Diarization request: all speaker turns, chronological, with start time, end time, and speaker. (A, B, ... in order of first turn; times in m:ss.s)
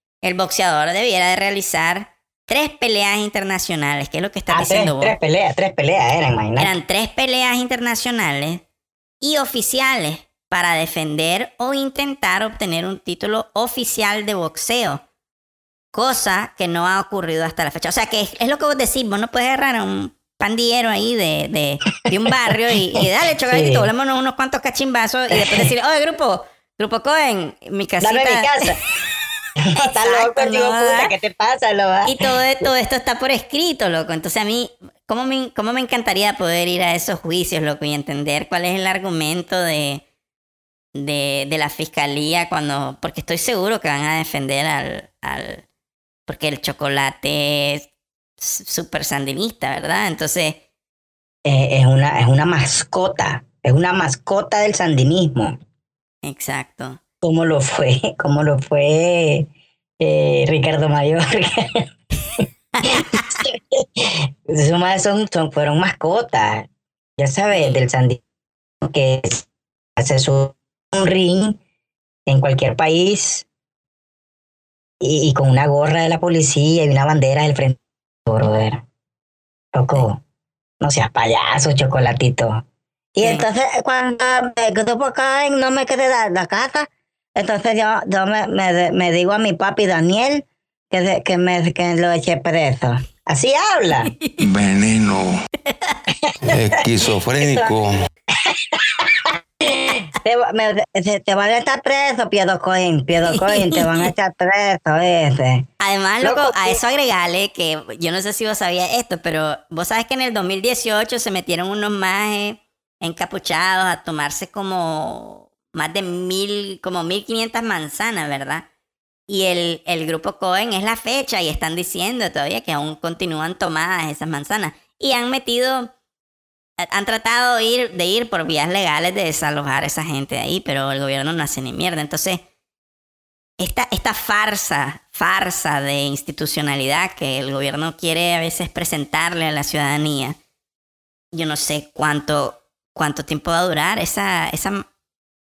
0:00.2-0:05.2 A
0:04.5-0:06.7 B
0:06.6-0:08.6 A
0:09.2-0:15.0 A
0:15.9-0:28.7 A
0:23.5-0:23.9 B
0:25.3-0:25.7 B
0:28.0-0:28.8 B
0:29.6-0:32.3 B
0:29.8-0:31.1 A
0:32.0-0:40.0 A
0:41.0-0:45.6 A
0:46.3-0:47.9 A
0:48.4-0:50.6 A
0:51.4-0:55.6 B
0:56.2-0:57.0 A
0:57.2-0:59.5 B
1:00.0-1:01.8 B
1:02.4-1:08.2 B
1:02.8-1:03.4 A
1:07.5-1:07.8 A
1:08.8-1:09.4 B
1:10.0-1:11.6 B
1:12.3-1:13.5 B
1:15.0-1:18.8 B
1:19.7-1:20.2 B
1:20.8-1:22.6 B
1:23.2-1:34.1 B
1:34.4-1:35.3 C
1:35.7-1:36.0 A
1:36.1-1:37.8 B
1:36.4-1:38.1 C
1:38.5-1:45.7 B
1:43.4-1:44.1 A
1:45.8-1:58.7 A
1:46.2-1:46.8 B
1:59.3-2:05.9 A
2:06.8-2:12.4 A
2:13.6-2:20.4 A
2:21.3-2:24.8 A